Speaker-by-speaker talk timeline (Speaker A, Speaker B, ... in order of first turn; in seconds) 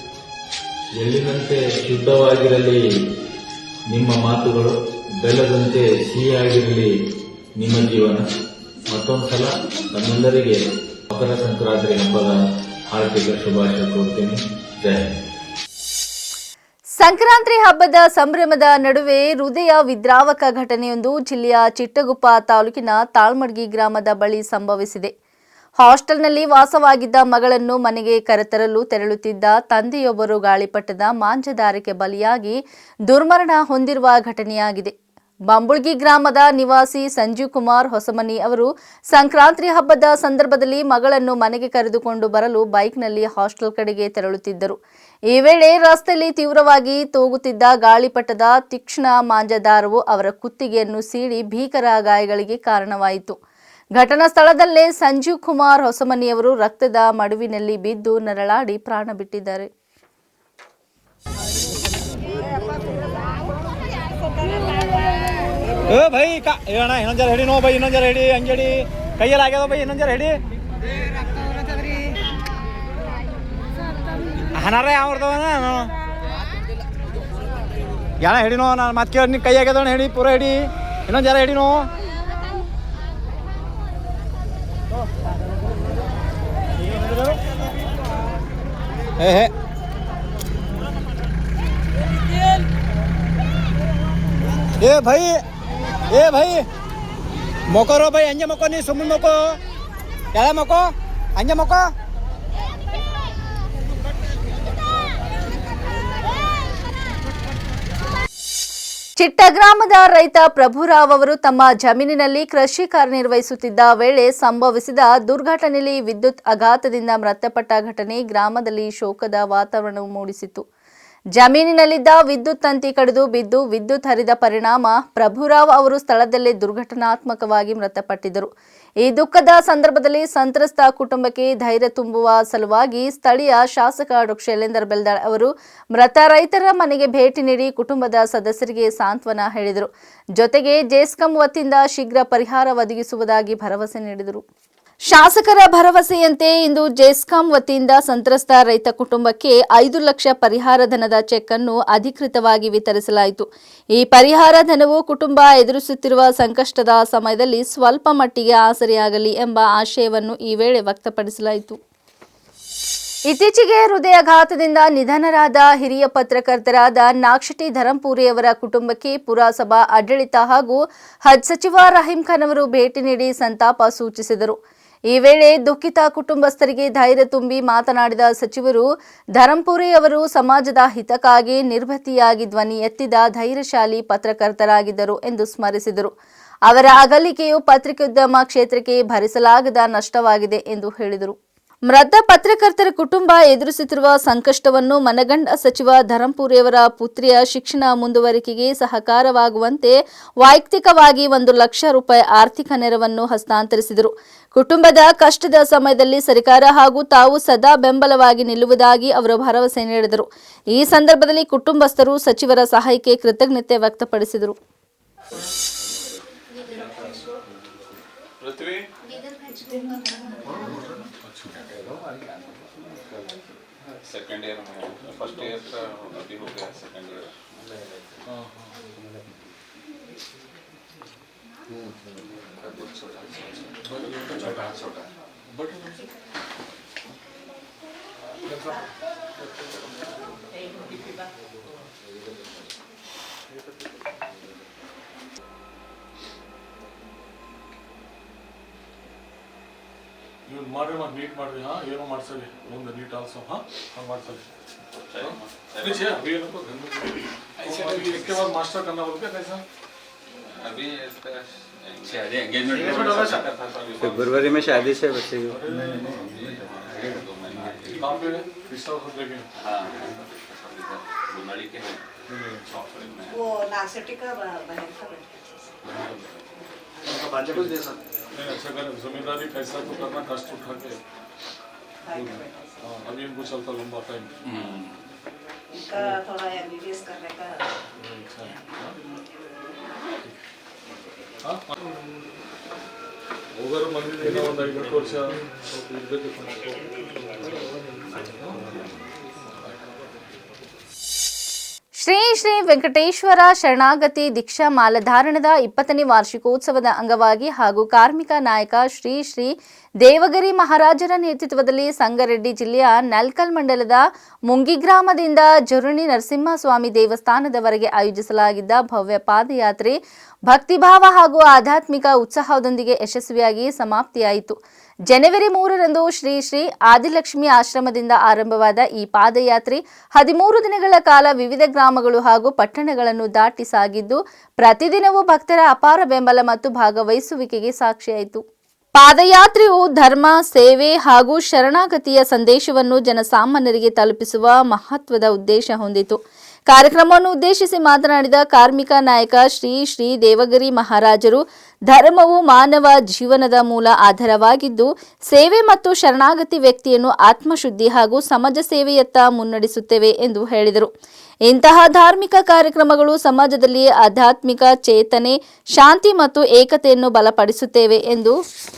Speaker A: 0.9-2.8, 3.9-6.9, 7.5-8.2, 8.9-10.6, 11.1-15.2
Speaker B: 17.0-25.1, 25.8-34.9, 35.5-44.8, 45.3-53.4, 54.0-59.7, 109.2-120.6, 121.3-128.5, 129.0-144.4, 145.1-161.8, 163.3-174.6, 175.1-178.8, 179.4-186.1, 186.7-191.3, 191.9-214.5, 302.0-309.5, 310.0-320.0, 320.5-324.6, 325.1-338.4, 338.9-360.9, 361.5-368.4
Speaker C: 65.9-70.4, 74.5-75.9, 78.2-81.9, 87.0-87.3, 89.2-89.5, 94.8-95.4, 96.1-96.7, 97.7-99.6, 100.3-101.9, 264.0-265.6
Speaker D: 218.4-218.8, 224.1-227.3, 255.2-255.8, 260.6-265.0, 266.4-268.0, 269.6-272.0, 272.8-273.3
Speaker E: 219.7-220.1, 273.3-275.5, 282.0-282.6, 285.7-287.8
Speaker F: 221.2-221.7, 228.2-228.7, 233.8-234.7, 235.5-235.9, 250.5-254.4, 255.1-259.6, 262.8-263.5, 265.4-266.2, 267.9-269.4, 272.3-272.7, 277.3-277.8, 278.3-281.0, 282.1-284.3, 288.0-289.0, 291.4-291.7, 293.6-296.8